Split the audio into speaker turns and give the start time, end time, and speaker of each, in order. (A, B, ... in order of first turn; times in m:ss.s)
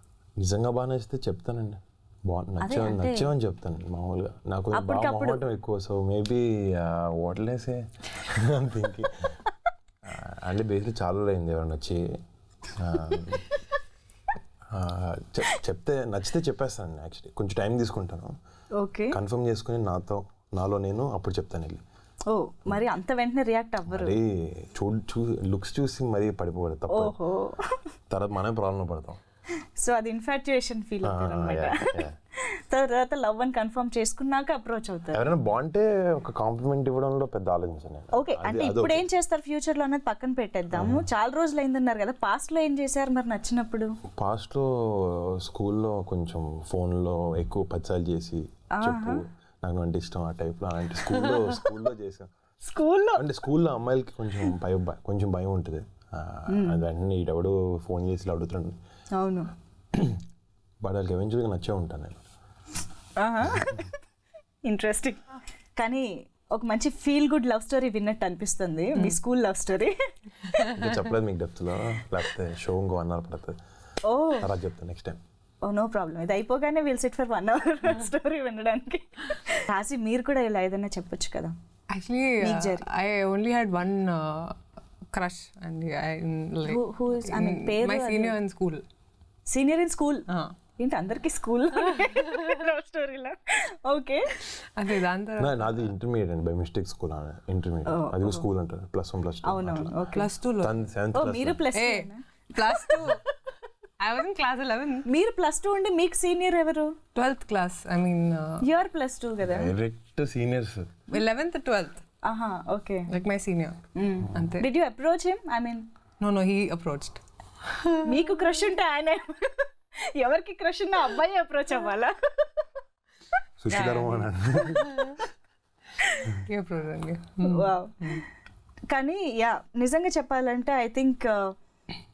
0:00.4-0:09.4 A
0:02.6-0:03.3 B
0:04.7-0:05.4 B
0:10.0-0:12.1 A
0:12.7-0:13.5 A
0:14.7-0:18.4 A
0:18.8-0:19.2 B
0:19.1-0:21.8 A
0:22.3-0:24.2 B
0:23.9-0:27.2 A
0:26.9-0:27.8 B
0:28.1-0:29.2 A
0:29.8-0:35.2 B
0:31.0-0:32.2 A
0:35.1-0:39.1 A
0:38.1-0:44.0 B
0:40.7-0:41.1 A
0:44.1-0:52.3 A
0:48.7-0:49.2 B
0:52.6-0:53.2 B
0:53.2-0:58.8 A
0:56.5-0:56.8 B
0:59.2-0:59.5 B
0:59.9-1:00.2 A
1:00.8-1:02.2 A
1:03.2-1:04.0 B
1:03.5-1:03.8 A
1:04.6-1:05.2 B
1:05.8-1:10.8 B
1:10.7-1:13.6 A
1:14.0-1:14.5 B
1:14.4-1:15.2 A
1:15.6-1:21.6 B
1:21.9-1:24.6 C
1:22.4-1:22.8 B
1:25.1-1:28.8 C
1:26.6-1:28.4 B
1:29.5-1:30.3 B
1:30.3-1:30.6 C
1:30.8-1:34.5 B
1:31.9-1:32.4 C
1:34.8-1:35.9 C
1:35.4-1:40.1 A
1:37.9-1:38.4 B
1:39.4-1:40.3 B
1:40.2-1:40.8 C
1:40.6-1:41.6 A
1:41.2-1:42.2 B
1:41.7-1:43.2 C
1:44.0-1:45.1 C
1:45.1-1:47.0 B
1:47.2-1:48.6 C
1:48.6-1:49.7 B
1:49.4-1:50.9 A
1:51.1-1:52.0 C
1:52.2-1:53.1 B
1:53.1-1:53.8 C
1:54.0-1:55.9 B
1:54.3-1:54.7 C
1:56.2-1:58.2 C
1:58.0-2:02.6 B
2:03.6-2:05.2 A
2:03.7-2:04.3 C
2:06.0-2:06.4 B
2:06.5-2:08.2 C
2:07.4-2:08.2 B
2:08.9-2:11.6 B